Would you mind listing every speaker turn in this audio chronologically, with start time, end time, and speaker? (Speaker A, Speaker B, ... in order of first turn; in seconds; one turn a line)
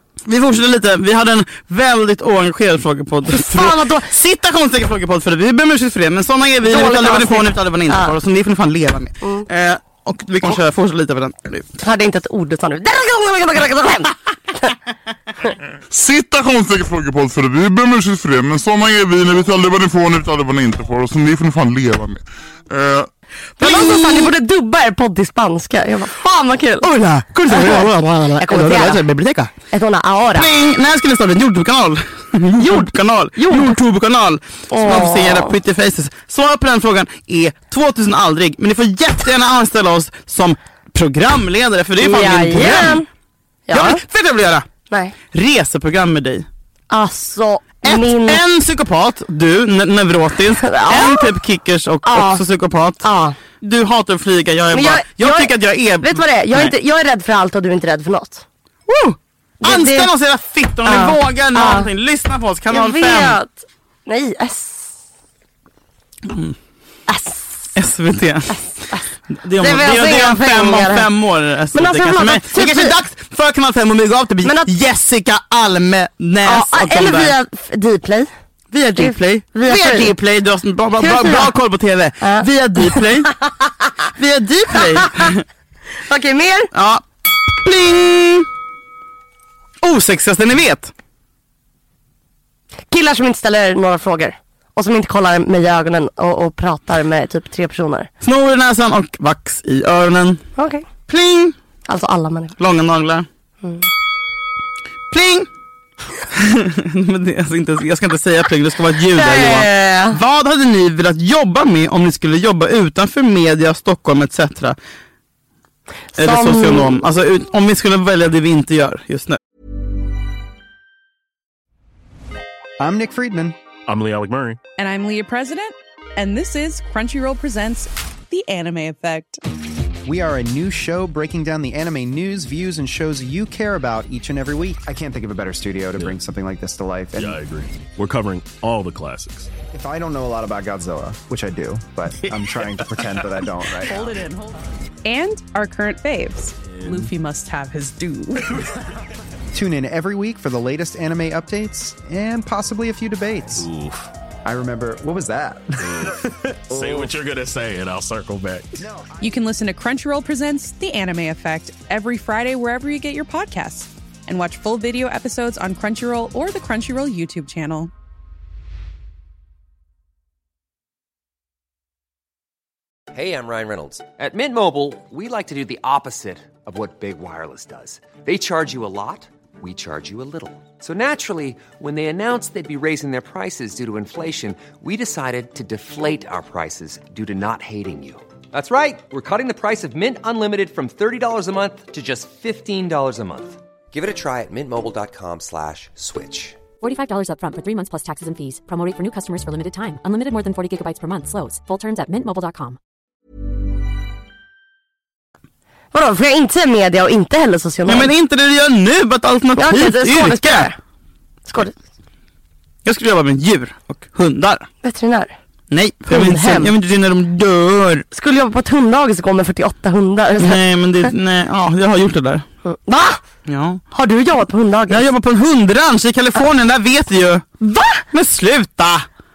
Speaker A: 0.2-11.7
Speaker B: 3.3-4.1
Speaker B: 6.7-8.2
Speaker B: 9.2-9.5
Speaker B: 11.8-14.8
Speaker C: 15.9-23.1
Speaker B: 23.6-26.9
Speaker A: 23.6-24.3
Speaker A: 26.8-29.5
Speaker B: 27.5-29.0
Speaker B: 29.7-30.5
Speaker A: 30.4-43.0
Speaker B: 32.6-33.8
Speaker B: 34.7-35.5
Speaker B: 42.0-43.1
Speaker B: 43.7-44.0
Speaker A: 43.7-44.7
Speaker B: 44.9-45.1
Speaker A: 45.3-46.5
Speaker B: 46.9-48.4
Speaker A: 47.8-53.1
Speaker B: 50.6-51.4
Speaker B: 52.0-52.4
Speaker B: 53.0-53.4
Speaker A: 53.6-56.7
Speaker B: 54.7-58.5
Speaker A: 58.9-63.4
Speaker B: 59.6-60.1
Speaker B: 60.9-61.9
Speaker B: 62.7-65.0
Speaker A: 66.3-66.6
Speaker B: 67.1-67.7
Speaker A: 67.8-68.7
Speaker A: 69.4-77.3
Speaker B: 69.6-71.1
Speaker B: 71.7-73.0
Speaker B: 74.4-74.7
Speaker B: 76.4-78.3
Speaker A: 78.7-83.3
Speaker B: 79.0-80.1
Speaker B: 81.0-81.5
Speaker B: 82.2-83.6
Speaker A: 84.2-85.4
Speaker B: 86.1-86.7
Speaker A: 86.7-87.0
Speaker A: 87.6-88.5
Speaker A: 89.8-90.9
Speaker B: 92.9-98.1
Speaker A: 98.2-100.4
Speaker B: 100.6-100.8
Speaker A: 101.1-101.5
Speaker B: 101.9-102.6
Speaker A: 102.6-103.3
Speaker A: 105.1-105.5
Speaker A: 106.3-114.8
Speaker B: 109.1-110.2
Speaker B: 116.2-117.0
Speaker A: 116.2-119.4
Speaker D: 122.8-123.6
Speaker E: 123.9-124.6
Speaker F: 124.8-129.4
Speaker D: 130.1-137.4
Speaker E: 137.1-139.5
Speaker D: 139.7-144.1
Speaker E: 142.1-143.5
Speaker F: 143.9-148.5
Speaker E: 146.6-147.0
Speaker D: 149.5-153.7
Speaker E: 153.6-154.1
Speaker D: 154.4-156.1
Speaker E: 155.8-158.7
Speaker D: 156.7-157.2
Speaker D: 158.8-159.2
Speaker F: 159.2-167.9
Speaker G: 173.1-196.6
Speaker H: 196.8-202.8
Speaker B: 205.9-208.1
Speaker A: 207.9-210.7
Speaker B: 209.6-210.8
Speaker B: 211.5-211.8
Speaker A: 212.8-214.7
Speaker B: 214.8-215.3
Speaker A: 215.7-218.1
Speaker B: 216.1-216.7
Speaker B: 218.1-220.6
Speaker A: 220.4-222.5
Speaker B: 222.7-223.2
Speaker A: 223.5-223.8
Speaker B: 223.9-225.0
Speaker A: 224.9-227.5
Speaker B: 227.6-228.1
Speaker A: 228.1-229.1